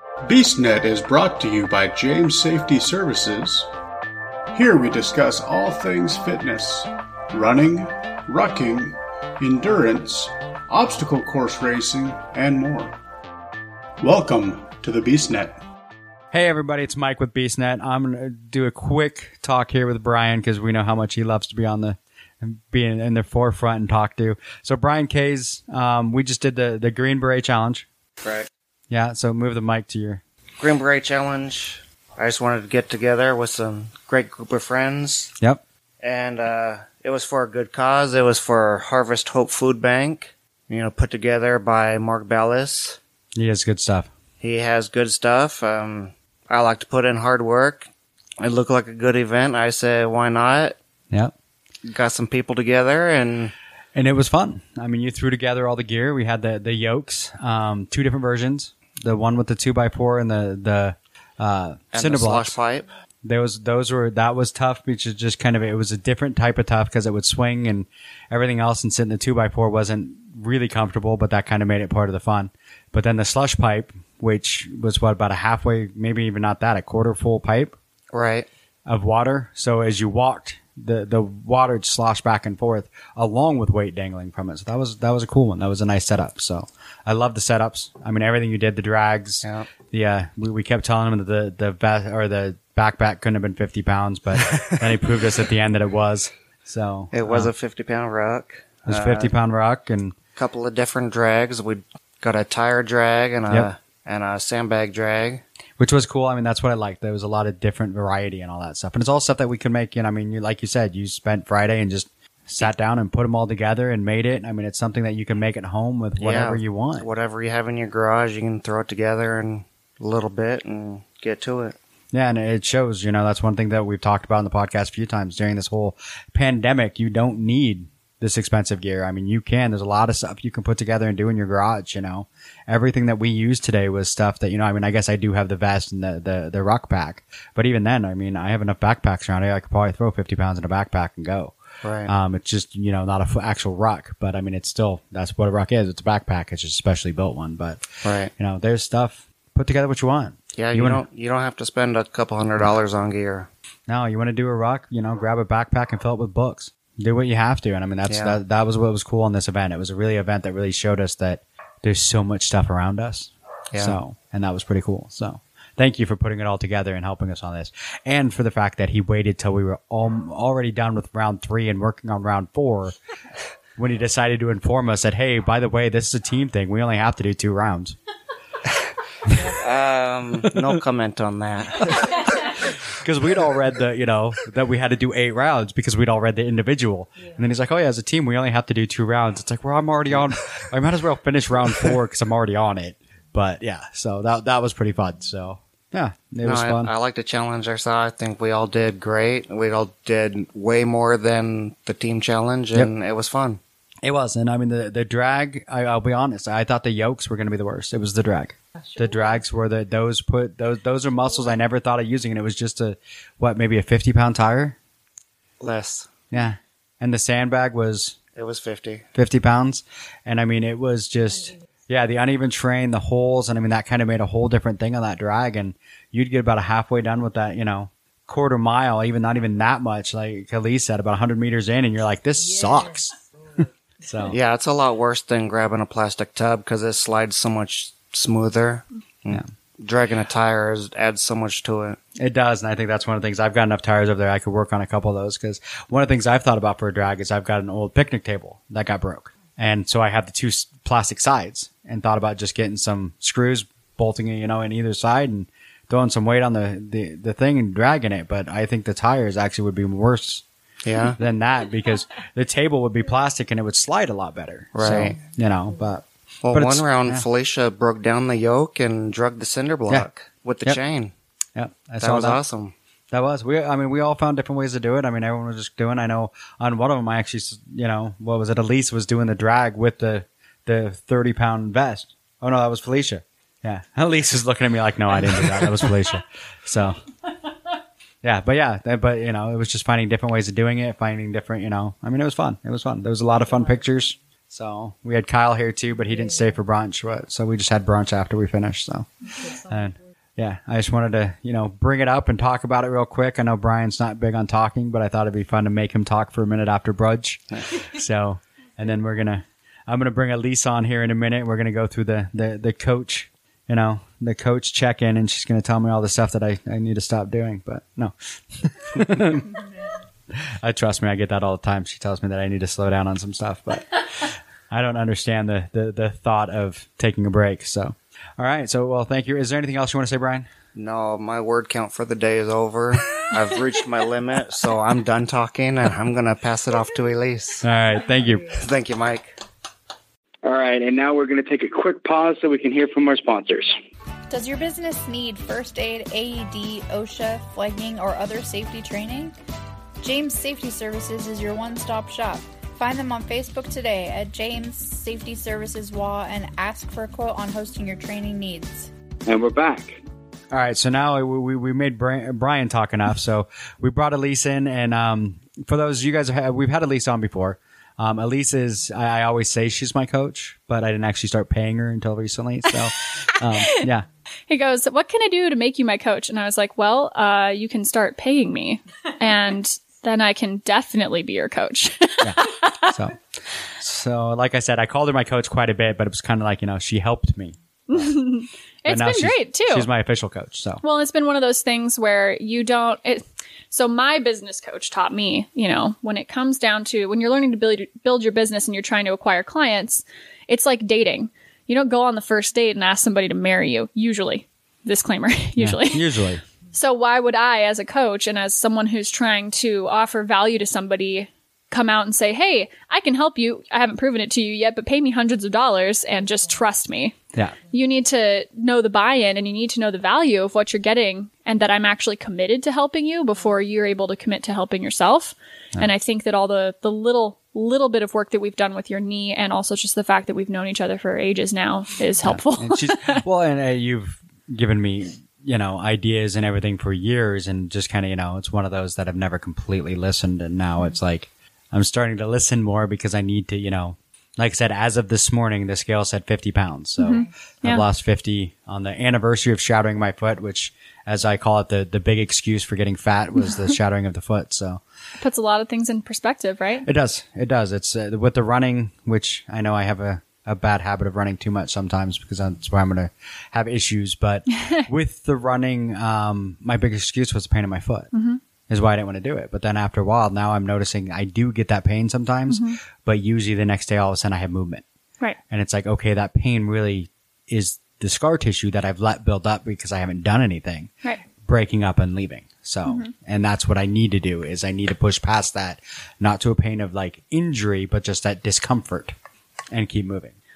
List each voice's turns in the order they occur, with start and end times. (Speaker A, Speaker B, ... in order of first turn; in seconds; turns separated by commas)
Speaker A: 0.2-3.7, Speaker A: 4.5-13.0, Speaker A: 14.0-15.6, Speaker B: 16.3-27.9, Speaker C: 28.2-28.5, Speaker B: 28.9-30.2, Speaker C: 30.6-35.3, Speaker C: 36.0-43.0, Speaker B: 43.3-44.1, Speaker C: 44.4-50.8, Speaker C: 51.8-53.5, Speaker B: 53.9-62.6, Speaker C: 61.9-62.9, Speaker B: 63.2-77.7, Speaker C: 78.1-78.5, Speaker B: 78.8-97.5, Speaker C: 89.4-89.7, Speaker C: 97.1-99.3, Speaker B: 98.9-100.1, Speaker C: 100.3-105.4, Speaker B: 105.8-117.1, Speaker C: 116.2-121.8, Speaker B: 122.1-147.8, Speaker C: 141.8-142.1, Speaker C: 148.0-148.3, Speaker B: 148.4-151.0, Speaker C: 150.6-153.5, Speaker B: 153.9-172.9, Speaker C: 158.1-158.4, Speaker C: 163.7-164.0, Speaker B: 173.8-177.9, Speaker C: 179.4-182.2, Speaker B: 180.5-180.8, Speaker B: 181.8-196.9, Speaker C: 196.4-203.6, Speaker B: 204.0-214.8, Speaker C: 215.6-216.1, Speaker B: 216.3-218.2, Speaker C: 218.3-219.0, Speaker B: 219.1-233.2, Speaker B: 234.0-234.4, Speaker C: 234.2-242.0, Speaker B: 242.2-260.4, Speaker C: 260.8-261.2, Speaker B: 261.1-267.2, Speaker C: 264.7-265.2, Speaker C: 266.4-271.1, Speaker B: 271.6-272.4, Speaker C: 272.0-272.7, Speaker B: 273.1-287.0, Speaker B: 288.2-319.6, Speaker B: 320.3-330.5, Speaker C: 330.7-337.6, Speaker B: 337.6-338.5, Speaker C: 338.5-339.3, Speaker D: 340.4-343.7, Speaker E: 344.3-349.3, Speaker E: 350.0-358.9, Speaker D: 359.3-360.0, Speaker B: 360.5-374.1, Speaker F: 374.5-382.9, Speaker B: 382.2-383.2, Speaker B: 383.8-388.1, Speaker F: 387.9-389.9, Speaker B: 388.8-390.8, Speaker F: 390.8-406.1, Speaker B: 405.6-406.4, Speaker F: 406.7-417.1, Speaker F: 417.7-433.2, Speaker B: 432.2-454.8, Speaker F: 447.0-447.8, Speaker F: 455.2-456.9, Speaker B: 456.8-468.1, Speaker F: 468.1-468.4, Speaker B: 468.7-474.8, Speaker F: 472.5-472.8, Speaker B: 475.5-489.1, Speaker F: 482.9-483.1, Speaker B: 489.7-490.3